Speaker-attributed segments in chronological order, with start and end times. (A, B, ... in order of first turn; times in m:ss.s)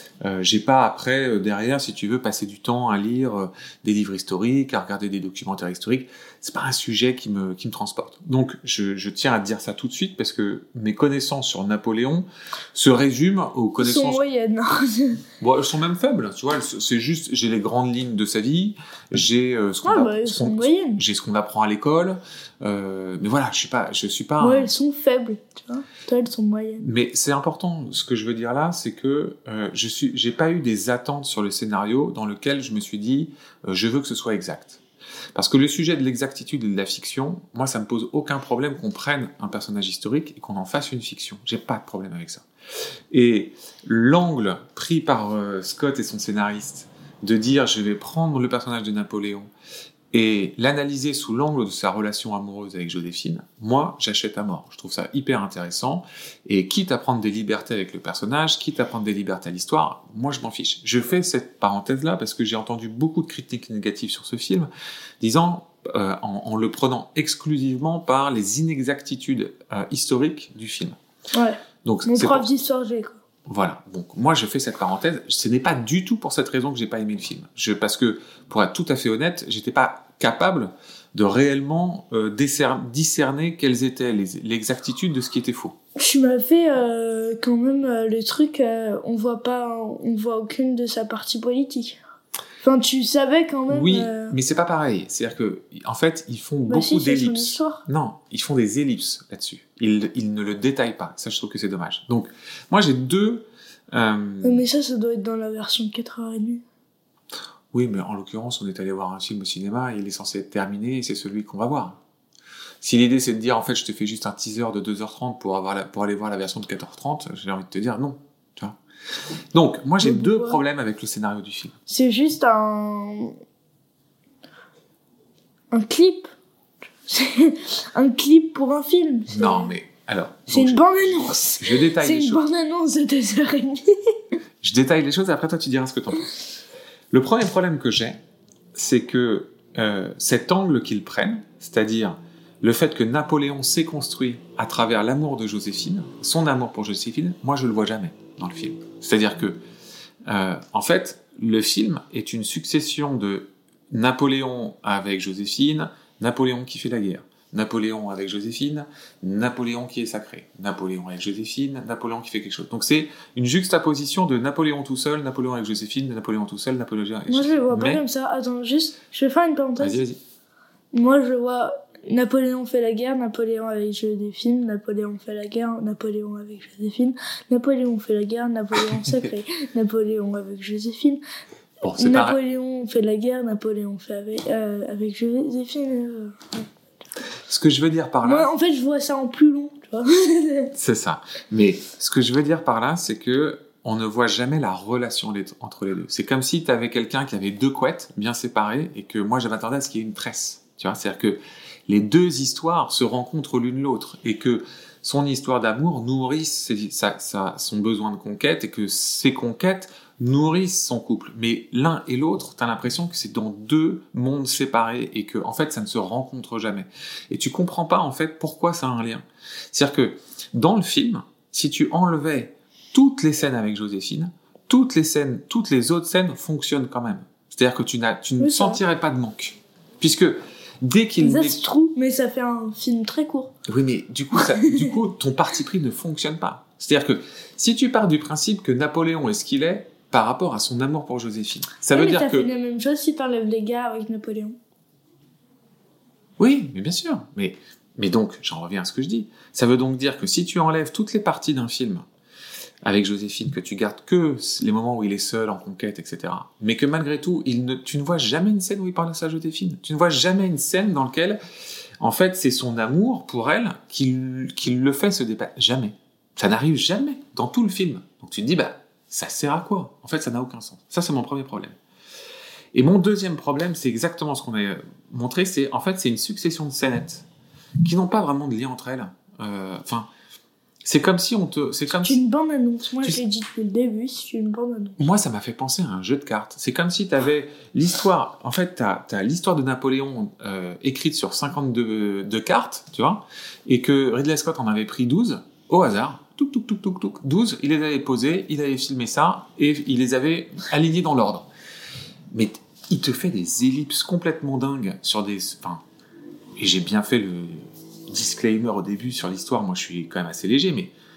0:00.2-0:14.2 A
0:13.8-0:15.2 B
0:15.4-0:24.7 A
0:19.8-0:21.0 B
0:24.4-0:26.9 B
0:26.8-0:34.8 A
0:35.3-0:42.4 A
0:43.1-0:49.5 A
0:50.1-1:04.7 A
1:05.2-1:11.0 A
1:11.3-1:13.2 B
1:11.8-1:12.4 A
1:13.4-1:25.8 A
1:26.0-1:32.0 B
1:32.6-1:34.4 B
1:33.7-1:44.6 A
1:36.7-1:37.8 B
1:44.4-1:46.6 B
1:47.7-1:52.0 A
1:52.8-1:58.8 A
1:59.5-2:01.8 A
2:00.0-2:00.6 B
2:01.9-2:03.4 B
2:05.7-2:06.3 B
2:07.1-2:09.7 B
2:09.3-2:12.4 A
2:10.5-2:14.1 B
2:14.6-2:16.3 A
2:17.1-2:18.2 A
2:18.7-2:29.6 A
2:30.3-2:48.0 A
2:47.3-2:50.0 B
2:49.8-2:50.2 A
2:50.9-3:01.2 B
3:01.8-3:02.4 A
3:02.0-3:06.6 B
3:07.4-3:08.5 A
3:08.2-3:10.7 B
3:10.7-3:51.6 A
3:48.4-3:48.8 B
3:51.2-3:53.5 B
3:53.6-4:02.5 A
4:01.9-4:04.6 B
4:06.4-4:12.0 A
4:12.8-4:21.4 A
4:22.0-4:31.8 A
4:32.7-4:37.3 A
4:37.8-4:40.1 A
4:40.8-4:42.2 A
4:42.0-4:45.0 B
4:45.0-5:01.5 A
5:02.3-5:05.8 A
5:06.6-5:10.9 A